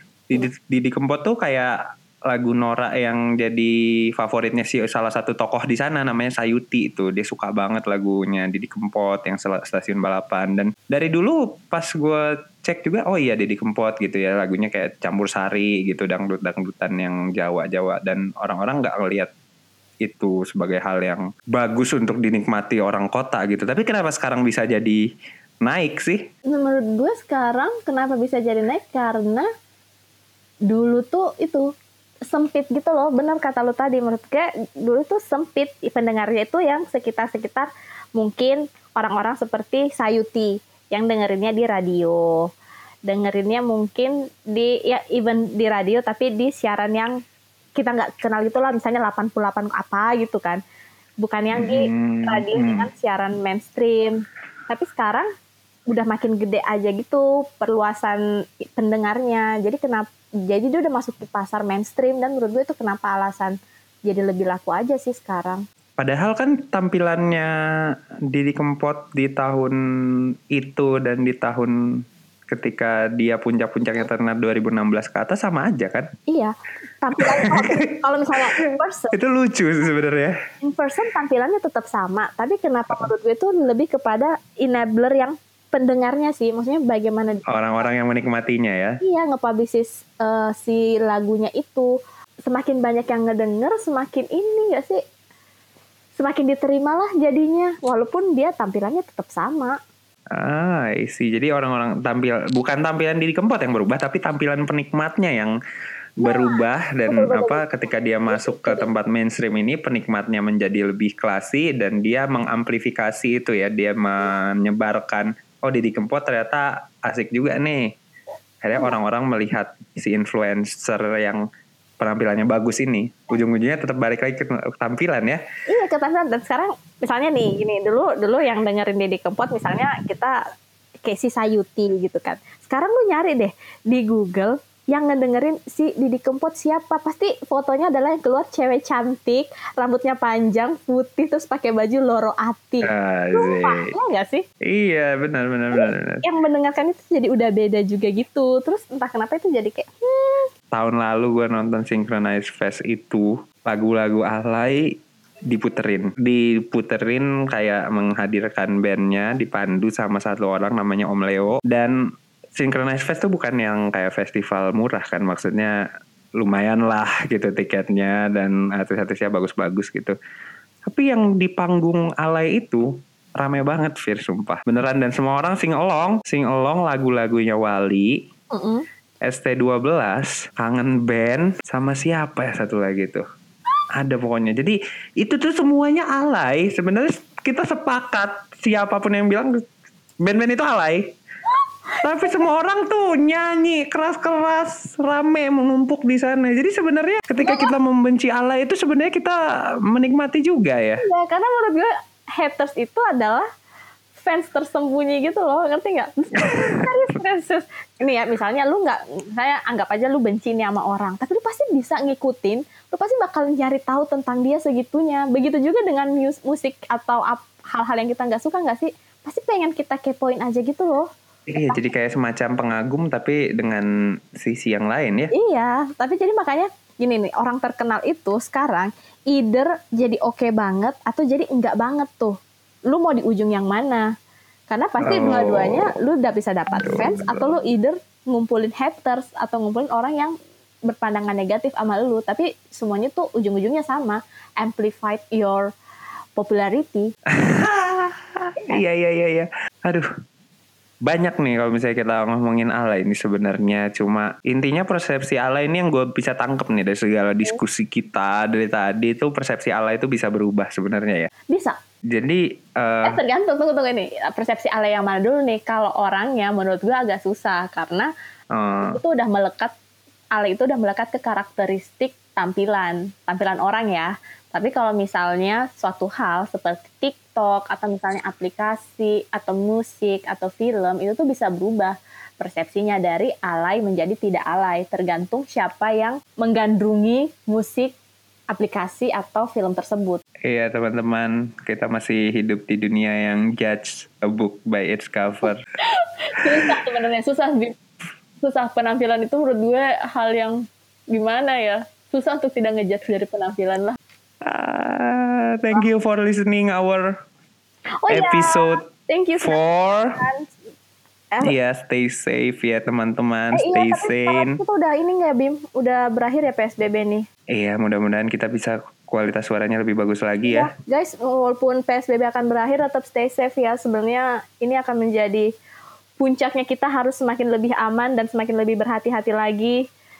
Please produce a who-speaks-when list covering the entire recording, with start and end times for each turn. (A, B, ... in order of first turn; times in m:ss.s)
0:00.3-0:01.7 A
0:02.3-0:19.3 A
0:20.0-0:25.0 A
0:25.6-0:26.2 A
0:26.5-0:29.5 B
0:30.7-0:31.6 B
0:32.3-0:42.3 B
0:43.1-0:47.1 B
0:47.8-0:50.6 B
0:51.2-0:55.2 B
0:51.5-0:52.9 A
0:55.9-0:58.2 B
0:58.7-1:05.6 B
1:06.0-1:07.5 A
1:08.3-1:09.8 A
1:10.5-1:11.7 A
1:12.5-1:16.1 A
1:16.3-1:19.1 B
1:17.3-1:17.9 A
1:18.6-1:20.4 A
1:20.6-1:27.5 B
1:27.5-1:29.0 A
1:29.0-1:31.9 B
1:32.4-1:35.0 B
1:36.2-1:39.8 B
1:40.3-1:45.5 A
1:46.2-1:57.9 A
1:46.2-1:47.7 B
1:48.2-1:48.8 B
1:58.6-2:01.4 A
2:02.0-2:05.4 A
2:05.7-2:10.4 B
2:11.0-2:24.4 B
2:22.8-2:23.9 A
2:24.7-2:26.2 A
2:25.7-2:30.5 B
2:30.7-2:34.9 A
2:35.4-2:41.9 A
2:42.6-2:45.7 A
2:46.4-2:50.1 A
2:50.8-2:52.9 A
2:53.4-2:58.2 A
2:58.5-2:58.8 B
2:59.2-3:03.2 A
3:03.9-3:09.5 A
3:10.2-3:11.1 A
3:12.0-3:19.4 A
3:17.4-3:17.7 B
3:19.9-3:21.0 A
3:21.0-3:23.4 B
3:24.2-3:41.8 B
3:26.4-3:26.9 A
3:41.5-3:43.9 A
3:44.4-3:45.3 A
3:45.3-3:52.4 B
3:52.9-3:54.1 B
3:54.7-4:00.3 B
3:55.0-3:55.9 A
3:56.7-3:57.6 A
4:00.9-4:05.7 B
4:06.4-4:07.1 B
4:07.3-4:10.1 A
4:11.0-4:21.3 A
4:21.5-4:21.8 B
4:22.1-4:23.2 A
4:23.0-4:28.1 B
4:28.5-4:29.0 A
4:28.8-4:29.7 B
4:30.3-4:47.9 B
4:48.5-4:50.2 B
4:50.4-4:55.6 A
4:55.8-4:57.7 B
4:58.4-5:00.6 B
5:01.1-5:04.0 B
5:04.4-5:07.1 A
5:08.0-5:10.5 B
5:08.1-5:08.8 A
5:09.4-5:10.2 A
5:11.4-5:14.6 A
5:13.5-5:17.2 B
5:17.5-5:20.7 A
5:20.4-5:25.5 B
5:26.2-5:29.8 B